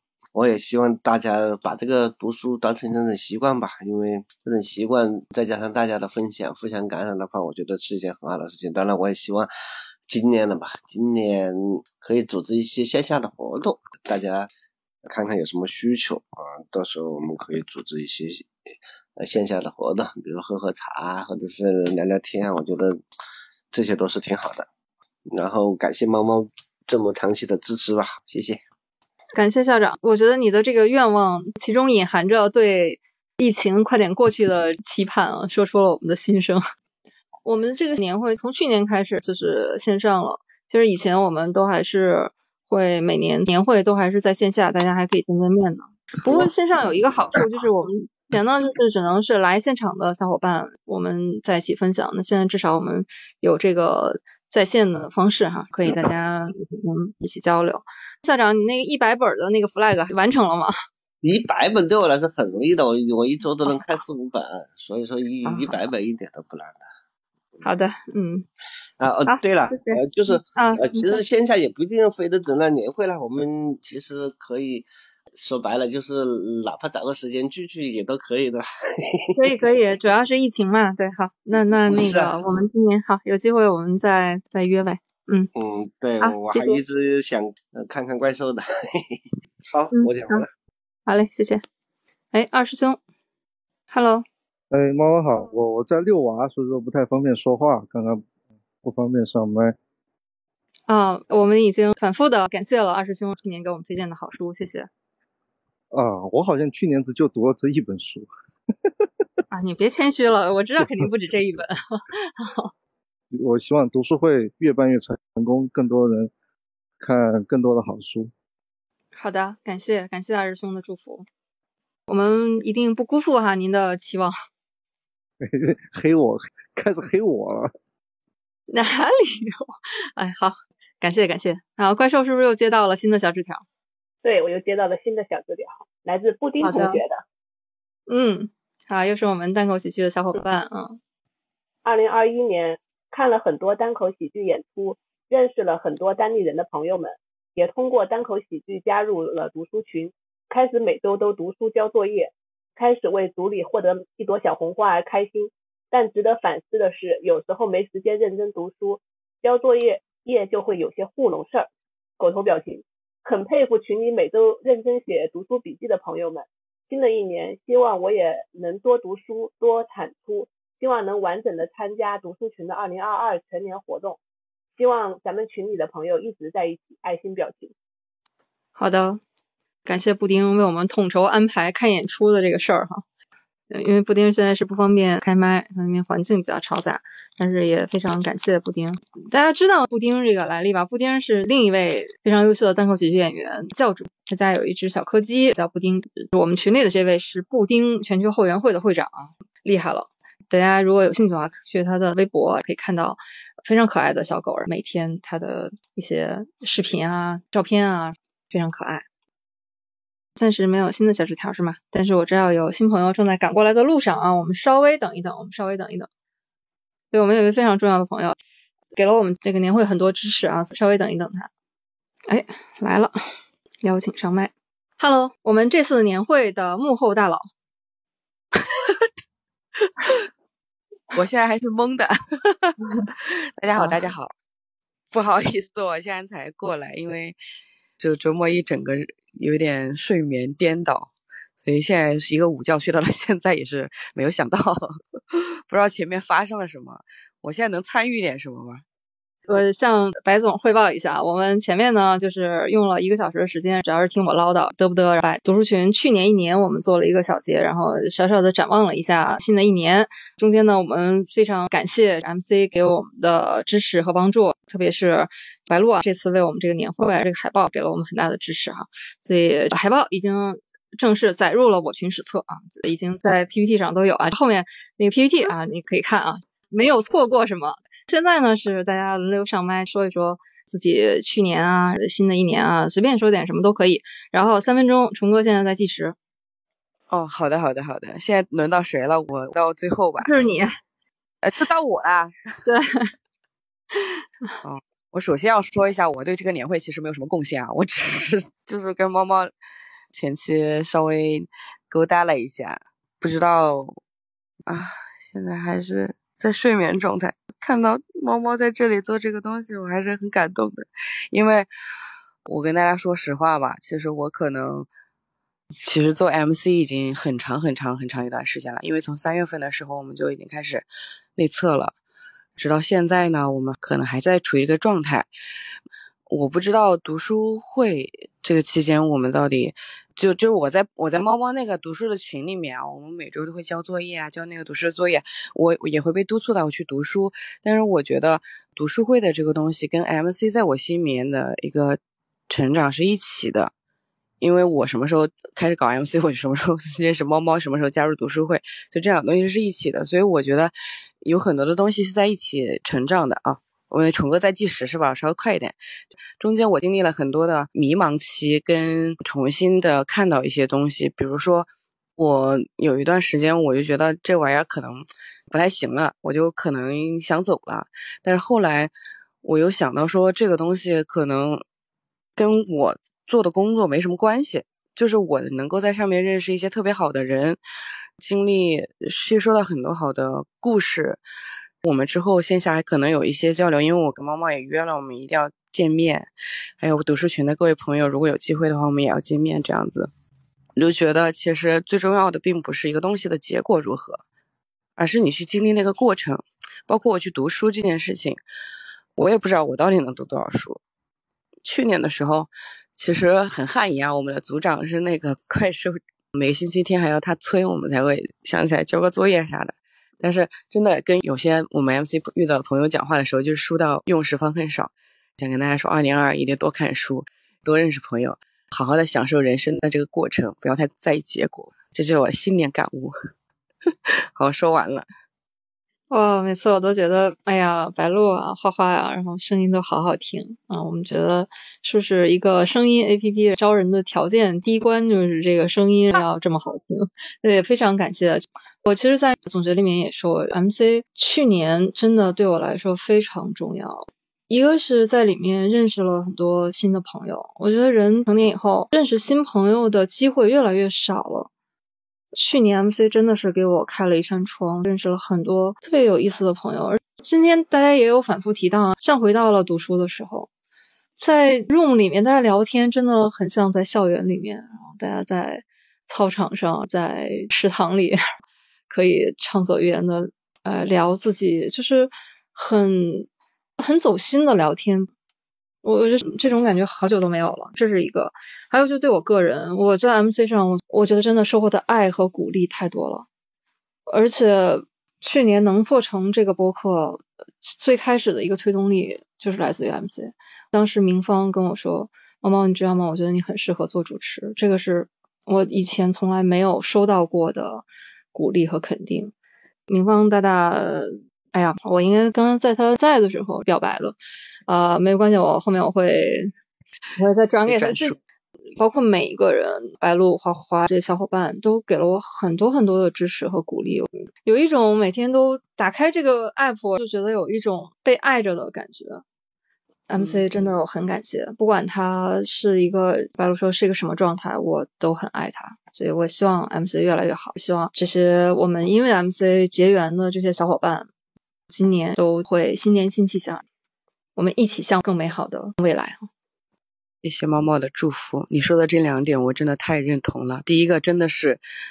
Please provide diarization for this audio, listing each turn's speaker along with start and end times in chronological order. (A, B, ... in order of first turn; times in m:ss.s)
0:00.4-0:09.5 A
0:10.1-0:14.5 A
0:15.1-0:18.5 A
0:19.2-0:22.9 A
0:23.7-0:24.7 A
0:25.3-0:28.6 A
0:29.4-0:36.6 B
0:37.5-1:00.7 B
1:01.2-1:06.8 A
1:05.4-1:05.9 B
1:07.6-1:08.5 B
1:09.0-1:18.6 A
1:09.2-1:10.0 B
1:10.5-1:11.2 B
1:19.4-1:25.5 B
1:21.9-1:22.3 A
1:25.6-1:28.6 A
1:26.2-1:26.8 B
1:29.7-1:30.4 A
1:29.9-1:30.5 B
1:31.1-1:31.6 B
1:32.3-1:33.0 B
1:33.9-1:34.2 B
1:34.7-1:38.2 C
1:38.8-1:39.8 C
1:40.9-1:44.9 B
1:45.9-1:48.3 C
1:49.5-1:52.7 B
1:53.3-1:56.3 C
1:57.0-1:58.3 C
1:59.2-2:01.2 B
2:02.1-2:04.3 B
2:05.4-2:07.7 C
2:08.7-2:13.6 B
2:14.2-2:17.2 D
2:16.6-2:17.0 B
2:18.1-2:21.0 B
2:21.8-2:41.7 D
2:42.2-2:54.2 D
2:54.8-2:57.7 D
2:58.8-2:59.2 B
2:59.9-3:03.0 B
3:03.7-3:29.1 B
3:30.4-3:36.1 B
3:37.1-3:38.4 B
3:38.9-3:41.5 B
3:42.3-3:43.1 B
3:43.8-3:47.4 B
3:51.1-3:52.7 E
3:53.2-3:54.3 E
3:55.1-3:57.4 E
3:58.0-4:08.8 E
4:09.5-4:46.2 B
4:47.1-4:50.3 E
4:50.2-4:50.7 B
4:51.4-4:52.4 E
4:52.6-4:53.1 B
4:54.6-4:59.5 E
5:00.1-5:04.0 E
5:04.7-5:11.7 E
5:12.5-5:14.9 E
5:15.8-5:22.0 E
5:22.6-5:25.3 E
5:26.3-5:42.0 E
5:42.5-5:43.7 E
5:44.4-5:55.8 E
5:56.4-6:08.9 E
6:09.4-6:11.6 E
6:12.4-6:17.6 E
6:18.2-6:21.2 E
6:21.8-6:30.1 E
6:30.8-6:34.2 E
6:35.0-6:38.4 E
6:39.2-6:40.8 E
6:41.6-7:03.2 E
7:04.4-7:05.1 E
7:06.1-7:31.5 B
7:32.3-7:40.5 B
7:41.2-7:48.2 B
7:48.9-7:53.3 B
7:53.8-7:55.1 B
7:55.8-8:03.3 B
8:04.1-8:19.3 B
8:19.9-8:24.2 B
8:24.7-8:26.5 B
8:27.2-8:28.2 B
8:27.7-8:28.2 E
8:28.8-8:39.2 B
8:40.1-8:51.1 B
8:51.7-8:53.6 B
8:54.4-8:56.3 B
8:57.2-9:01.6 E